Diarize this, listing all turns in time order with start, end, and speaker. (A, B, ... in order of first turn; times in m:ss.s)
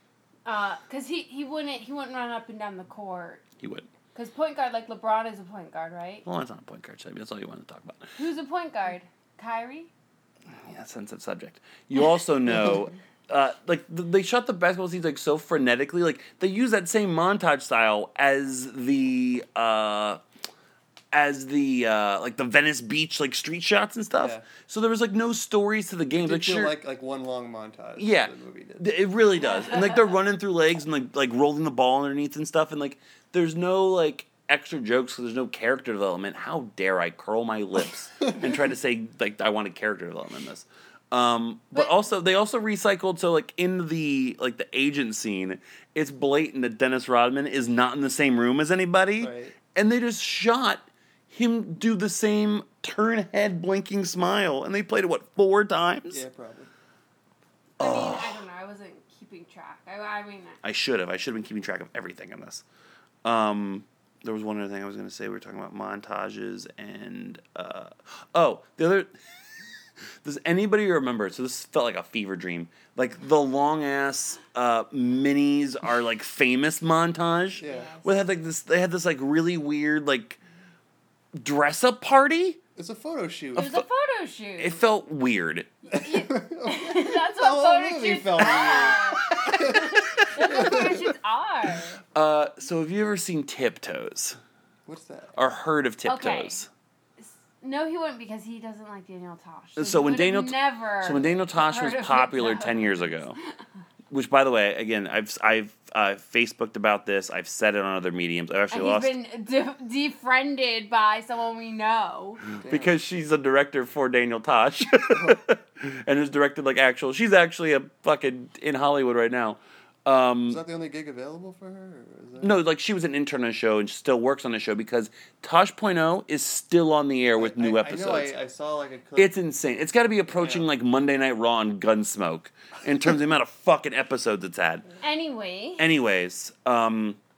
0:00.4-0:03.4 A
0:03.6-0:03.9 B
0:04.1-0:06.2 A
0:06.2-0:08.2 B
0:08.2-0:09.9 A
0:10.6-0:20.2 B
0:21.1-0:26.8 B
0:24.1-0:24.4 C
0:26.2-0:28.8 C
0:28.0-0:56.2 B
0:29.6-0:30.0 A
0:49.2-0:49.5 C
0:56.1-0:56.7 C
0:57.8-0:58.4 B
0:57.8-1:00.6 A
1:00.6-1:02.6 B
1:03.2-1:09.1 B
1:10.2-1:20.4 B
1:17.6-1:17.9 C
1:17.6-1:18.2 A
1:21.3-1:22.6 B
1:22.8-1:23.7 C
1:23.5-1:24.8 A
1:24.6-1:25.7 B
1:25.9-1:31.0 C
1:25.9-1:32.0 A
1:32.1-1:34.4 B
1:34.8-1:35.3 C
1:35.4-1:36.7 B
1:36.0-1:36.6 A
1:37.2-1:43.2 A
1:39.8-1:43.4 B
1:44.1-1:49.2 B
1:48.7-1:52.4 A
1:52.6-1:52.9 C
1:52.6-2:00.6 B
1:55.1-1:55.4 C
2:00.5-2:02.6 C
2:02.4-2:08.3 B
2:07.4-2:09.3 C
2:09.2-2:14.9 B
2:10.3-2:10.6 C
2:15.0-2:15.9 A
2:15.8-2:17.2 B